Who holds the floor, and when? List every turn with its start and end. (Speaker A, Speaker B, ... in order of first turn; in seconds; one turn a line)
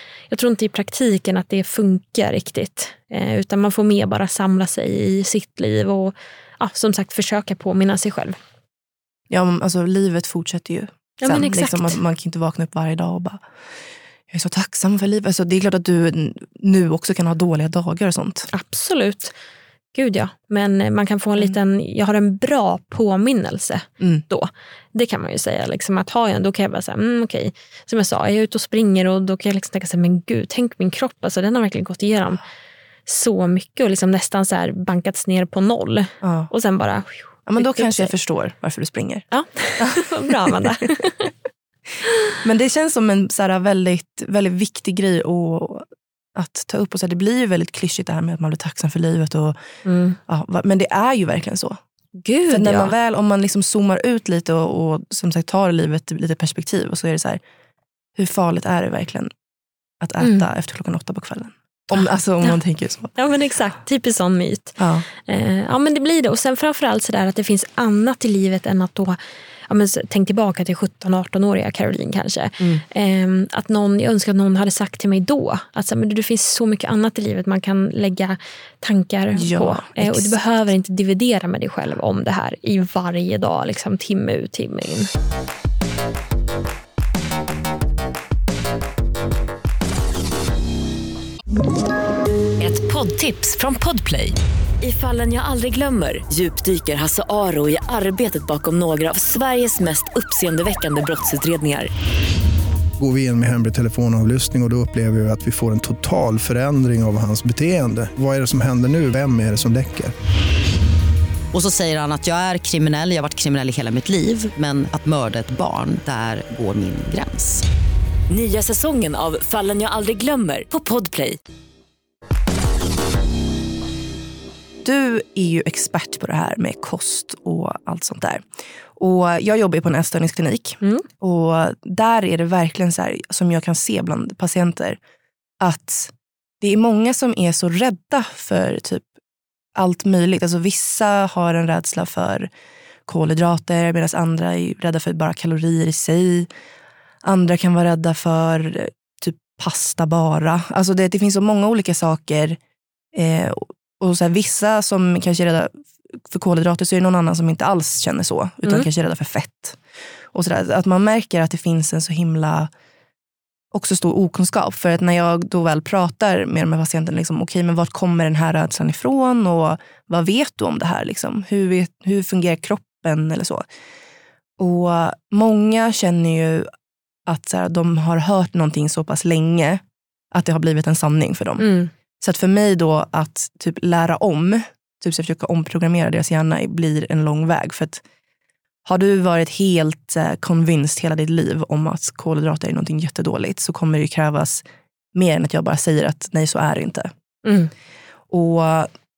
Speaker A: 0.3-8.3
Speaker B: 9.3-13.4
Speaker A: 11.2-12.0
Speaker B: 14.3-18.5
Speaker A: 18.5-19.3
Speaker A: 19.9-32.4
Speaker A: 33.0-38.1
Speaker B: 36.2-36.5
Speaker B: 37.5-39.3
Speaker A: 39.3-41.3
Speaker B: 39.8-40.5
Speaker B: 42.4-49.6
Speaker A: 49.8-50.2
Speaker B: 50.3-51.8
Speaker A: 52.2-52.9
Speaker B: 52.5-57.4
Speaker B: 58.1-59.3
Speaker B: 60.0-63.1
Speaker A: 60.2-60.5
Speaker A: 63.1-69.2
Speaker B: 64.8-65.0
Speaker A: 69.7-85.1
Speaker B: 79.3-80.4
Speaker C: 92.6-101.9
Speaker D: 103.0-110.1
Speaker E: 111.5-117.6
Speaker C: 118.3-121.4
Speaker B: 124.8-128.4
Speaker B: 129.0-135.0
Speaker B: 135.6-139.0
Speaker B: 139.7-142.5
Speaker B: 143.1-146.5
Speaker B: 147.2-152.6
Speaker B: 153.1-159.8
Speaker B: 160.3-162.7
Speaker B: 163.7-173.6
Speaker B: 174.6-176.7
Speaker B: 177.3-188.0
Speaker A: 181.6-181.9
Speaker B: 188.8-194.6
Speaker B: 195.1-197.1
Speaker A: 197.4-197.7
Speaker B: 198.3-198.9